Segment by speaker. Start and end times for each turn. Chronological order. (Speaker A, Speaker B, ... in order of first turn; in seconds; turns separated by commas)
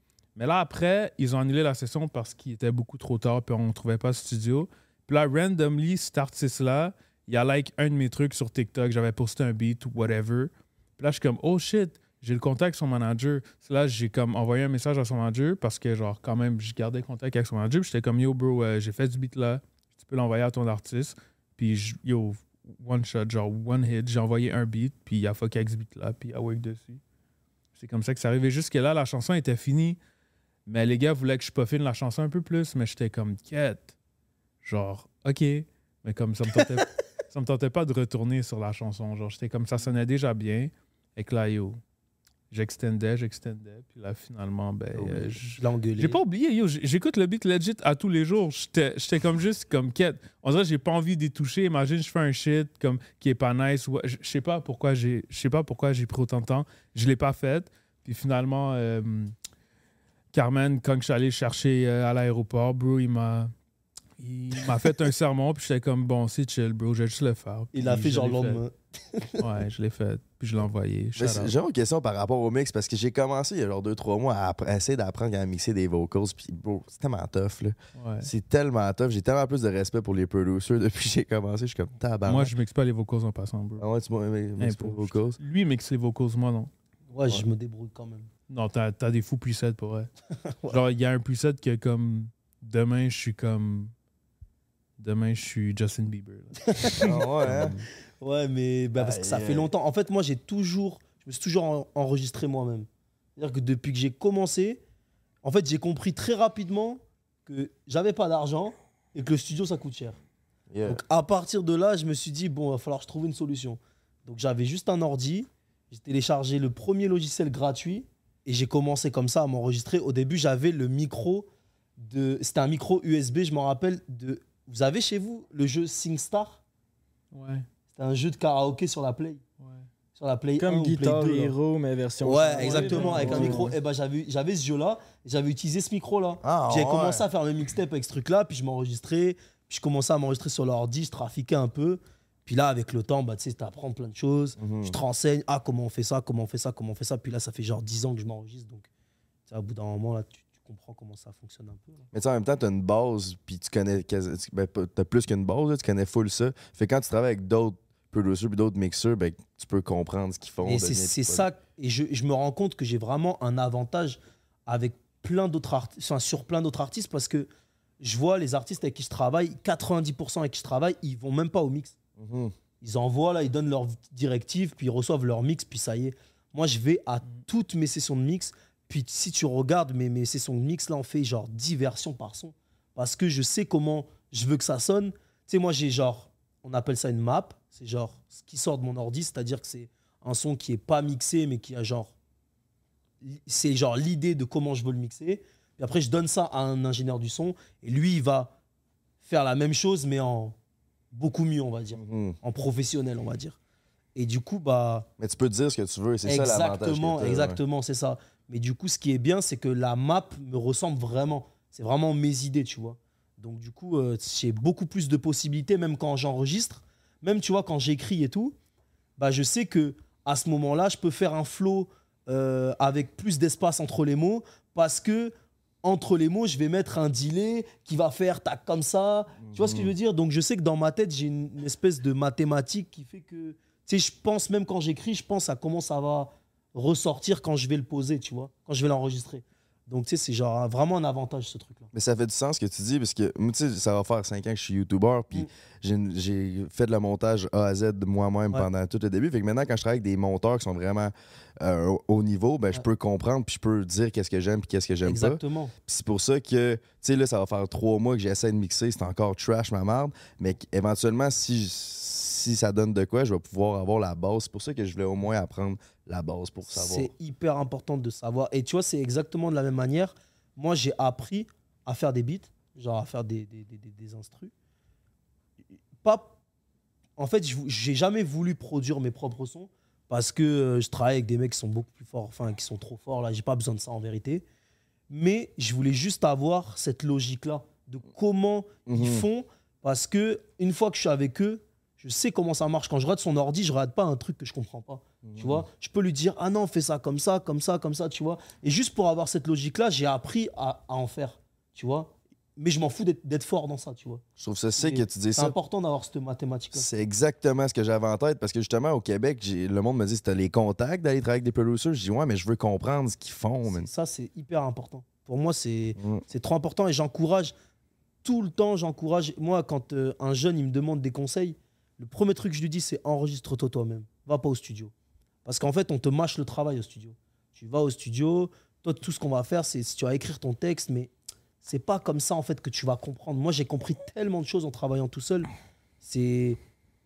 Speaker A: 0.4-27.0, Speaker A: 27.8-30.0, Speaker A: 30.7-33.9, Speaker A: 34.6-41.8, Speaker A: 42.5-59.3, Speaker B: 45.0-46.2, Speaker A: 60.3-63.5, Speaker A: 64.2-68.6, Speaker B: 67.7-69.5, Speaker A: 69.4-71.5, Speaker C: 71.2-82.5, Speaker A: 78.0-78.3, Speaker A: 82.2-83.8, Speaker C: 83.8-85.4, Speaker A: 84.6-86.7, Speaker B: 87.1-88.3, Speaker A: 88.5-90.1, Speaker A: 90.7-93.9, Speaker A: 95.0-96.7, Speaker B: 96.7-97.3, Speaker C: 97.0-97.8, Speaker A: 97.4-97.8, Speaker B: 98.2-104.8, Speaker C: 99.0-99.7, Speaker B: 105.4-110.2, Speaker C: 110.7-111.0, Speaker B: 110.9-126.6, Speaker A: 127.3-127.7, Speaker B: 127.9-129.4, Speaker A: 129.6-129.9, Speaker B: 130.2-131.6, Speaker D: 130.6-133.7, Speaker B: 132.2-148.9, Speaker A: 132.6-133.7, Speaker C: 136.4-137.2, Speaker C: 144.6-145.0, Speaker B: 149.5-152.1, Speaker C: 152.1-161.5, Speaker B: 160.6-167.5, Speaker B: 168.0-172.0, Speaker C: 172.2-172.5, Speaker B: 172.8-192.1, Speaker B: 193.2-198.5, Speaker B: 199.2-200.6, Speaker B: 201.1-203.6, Speaker C: 202.0-202.4, Speaker B: 204.2-205.1, Speaker C: 205.2-207.6, Speaker B: 206.2-218.6, Speaker B: 219.2-241.9, Speaker C: 229.4-229.9, Speaker C: 241.9-267.1, Speaker B: 255.0-255.7, Speaker B: 266.7-274.5, Speaker B: 276.0-276.4, Speaker B: 277.2-284.4, Speaker B: 285.1-304.2, Speaker C: 288.9-289.2, Speaker C: 295.2-295.6, Speaker C: 304.4-305.6, Speaker B: 304.8-306.9, Speaker C: 306.7-313.9, Speaker B: 313.7-317.6, Speaker C: 316.0-316.3, Speaker B: 318.2-324.9, Speaker B: 325.4-331.1, Speaker B: 331.6-335.5, Speaker B: 336.0-336.6